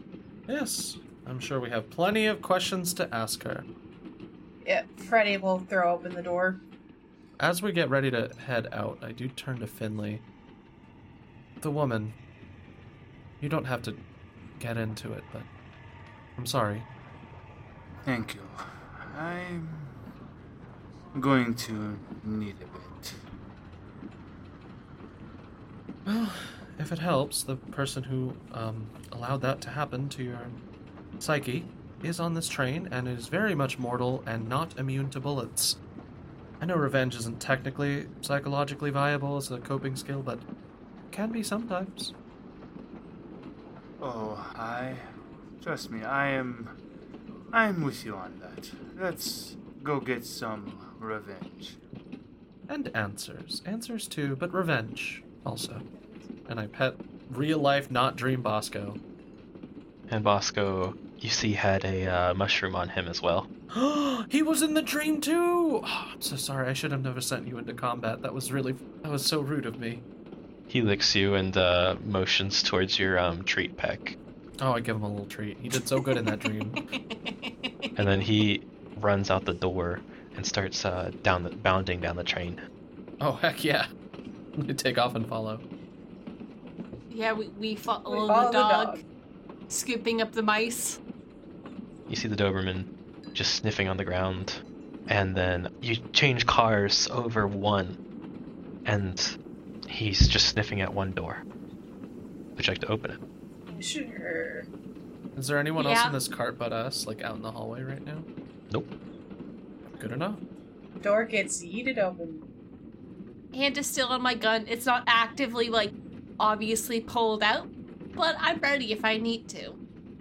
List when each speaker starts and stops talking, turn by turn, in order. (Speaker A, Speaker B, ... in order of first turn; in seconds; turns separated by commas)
Speaker A: 0.5-3.6, Speaker B: 4.6-6.6, Speaker A: 7.4-10.2, Speaker A: 11.6-12.2, Speaker A: 13.4-14.0, Speaker A: 14.6-15.5, Speaker A: 16.4-16.9, Speaker C: 18.1-20.0, Speaker C: 21.1-23.2, Speaker A: 26.1-30.6, Speaker A: 31.2-35.8, Speaker A: 36.6-40.4, Speaker A: 41.1-42.1, Speaker C: 44.0-45.0, Speaker C: 45.6-46.7, Speaker C: 47.5-51.8, Speaker A: 52.7-55.9, Speaker A: 56.5-59.0, Speaker D: 60.1-63.5, Speaker A: 63.7-70.0, Speaker D: 70.7-74.2, Speaker A: 74.6-76.8, Speaker E: 76.0-76.3, Speaker E: 77.0-77.9, Speaker D: 78.0-82.6, Speaker A: 83.2-83.9, Speaker A: 84.6-85.6, Speaker E: 87.1-89.0, Speaker B: 88.1-89.0, Speaker E: 89.7-91.0, Speaker D: 92.1-98.0, Speaker D: 98.8-99.4, Speaker D: 99.9-101.4, Speaker D: 102.5-103.2, Speaker B: 103.7-104.7, Speaker A: 105.3-108.3, Speaker E: 105.8-106.2, Speaker A: 110.0-110.4, Speaker B: 111.0-112.5, Speaker E: 113.5-119.8